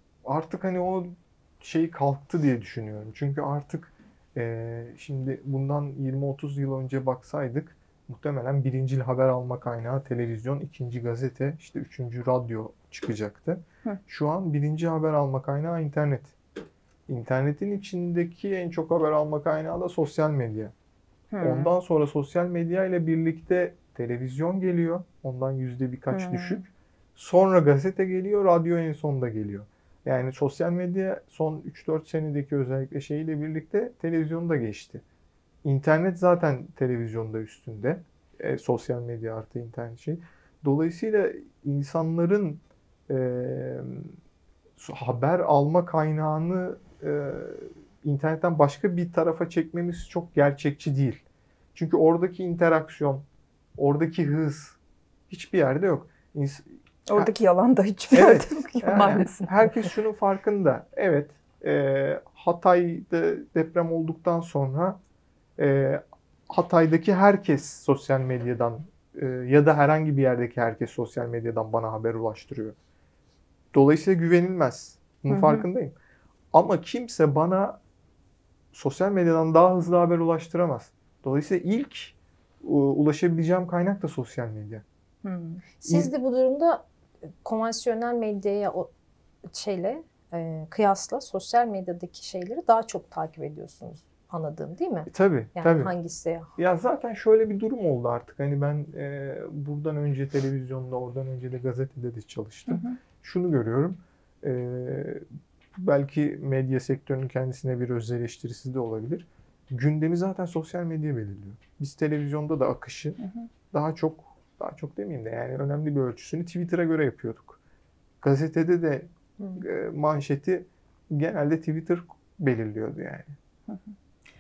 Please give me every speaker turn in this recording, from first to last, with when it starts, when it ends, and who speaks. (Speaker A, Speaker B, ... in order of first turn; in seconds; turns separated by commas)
Speaker A: 0.2-16.3, Speaker A: 17.1-20.7, Speaker B: 21.3-21.7, Speaker A: 21.4-35.0, Speaker B: 26.1-26.6, Speaker A: 35.6-44.1, Speaker A: 44.8-51.2, Speaker A: 51.7-53.2, Speaker A: 53.8-54.8, Speaker A: 55.3-57.3, Speaker B: 57.1-59.7, Speaker A: 58.1-65.0, Speaker A: 65.6-72.8, Speaker A: 73.7-75.9, Speaker A: 76.5-77.8, Speaker A: 78.7-84.8, Speaker B: 85.2-85.6, Speaker C: 85.8-86.8, Speaker A: 85.9-86.1, Speaker C: 87.4-88.9, Speaker C: 89.5-96.5, Speaker A: 95.1-95.9, Speaker A: 96.5-113.2, Speaker B: 102.7-103.0, Speaker A: 113.7-117.6, Speaker A: 118.2-123.3